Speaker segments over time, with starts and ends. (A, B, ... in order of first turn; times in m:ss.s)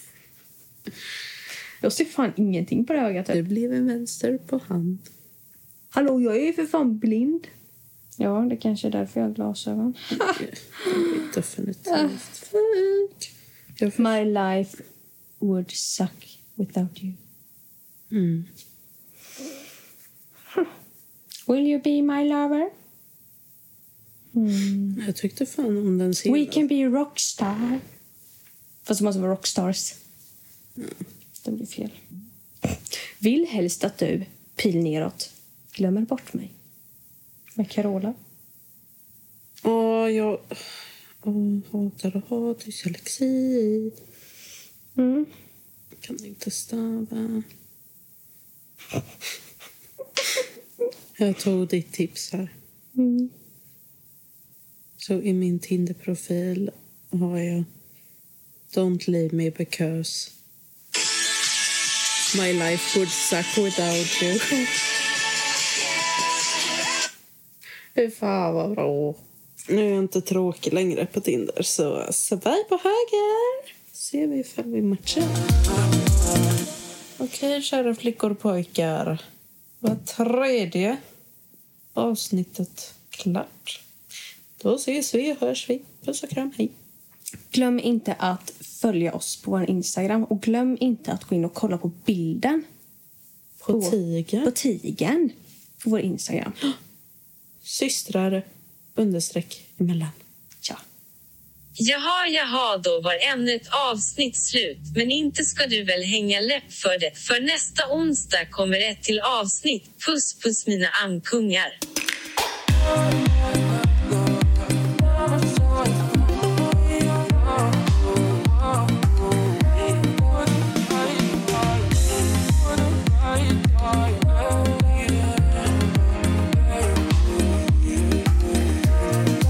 0:01.8-0:03.4 A
0:03.3-0:05.1 B
0:05.9-0:07.5 A
0:08.2-0:11.3 A
0:10.3-0:12.5 B
0:11.9-0:13.1 A
0:13.8-0:14.1 B
0:13.9-0:14.8 A
0:15.4-0:17.2 A
0:18.1-0:18.5 B
0:21.5-0:22.7 A
0:24.4-0:25.0 A
0:25.0-0:26.6 B
0:26.3-0:27.8 A
0:28.9-0:30.0 A
0:31.4-0:32.0 A
0:32.7-0:36.5 A
0:37.6-0:38.2 A
0:39.6-0:40.6 B
0:41.2-0:44.0 B
0:45.0-0:45.3 A
0:46.0-0:47.5 B
0:51.2-0:52.5 B
0:53.0-0:53.3 A
0:55.0-0:57.7 B
0:58.7-1:00.3 B
1:02.3-1:04.8 B
1:08.0-1:15.4 B
1:17.2-1:19.2 B
1:19.8-1:21.0 B
1:22.0-1:23.8 B
1:24.6-1:26.7 B
1:27.5-1:32.6 A
1:33.6-1:34.5 B
1:33.7-1:36.6 A
1:37.6-1:38.4 B
1:39.0-1:40.2 B
1:41.8-1:51.8 C